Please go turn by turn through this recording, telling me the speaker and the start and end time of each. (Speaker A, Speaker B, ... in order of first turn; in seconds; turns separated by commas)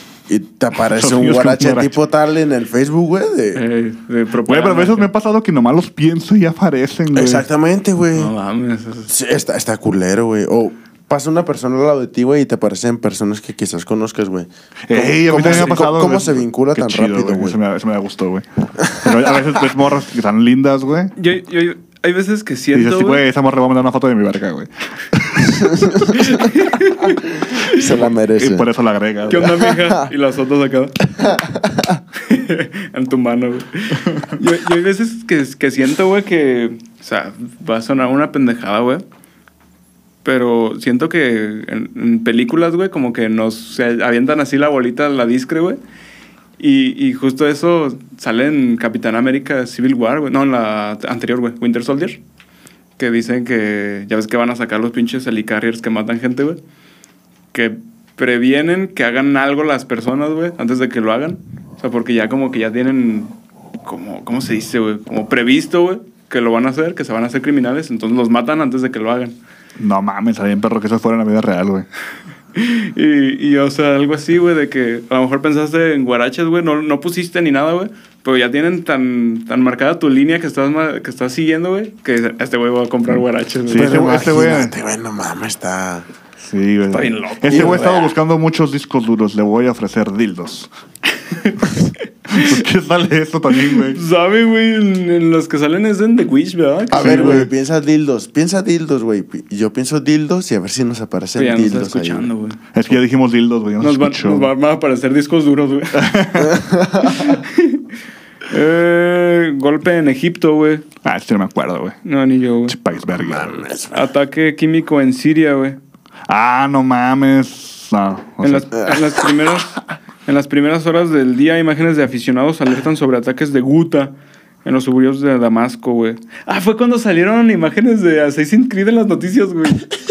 Speaker A: 0.3-3.6, Speaker B: 0.8-1.9, Speaker C: 3.5-5.1, Speaker B: 4.5-7.4, Speaker A: 7.1-8.3, Speaker C: 8.1-9.1, Speaker A: 9.1-17.6, Speaker B: 14.9-21.1, Speaker A: 19.0-19.3, Speaker C: 21.1-23.2, Speaker B: 22.7-26.4, Speaker A: 25.6-25.9, Speaker C: 26.1-27.8, Speaker A: 27.7-28.7, Speaker B: 27.8-29.6, Speaker C: 29.3-31.0, Speaker A: 29.6-30.1, Speaker A: 31.2-32.0, Speaker C: 32.1-39.0, Speaker C: 40.2-45.8, Speaker C: 46.6-52.2, Speaker C: 53.0-56.6, Speaker C: 57.5-69.3, Speaker B: 69.8-71.9, Speaker C: 72.5-84.0, Speaker B: 83.7-84.7, Speaker A: 83.7-86.0, Speaker B: 86.4-90.7, Speaker C: 86.9-88.1, Speaker A: 87.5-88.0, Speaker B: 92.3-94.0, Speaker C: 92.3-92.6, Speaker C: 93.8-97.5, Speaker A: 96.9-102.3, Speaker B: 96.9-97.5, Speaker C: 101.3-102.7, Speaker B: 102.7-104.5, Speaker C: 103.8-106.1, Speaker B: 105.9-106.6, Speaker A: 106.4-107.2, Speaker C: 107.2-107.8, Speaker C: 108.5-110.8, Speaker B: 111.0-112.0, Speaker C: 112.0-112.8, Speaker B: 112.7-113.7, Speaker A: 113.2-114.1, Speaker C: 113.9-115.8, Speaker B: 116.3-118.9, Speaker C: 118.4-124.1, Speaker C: 124.6-129.8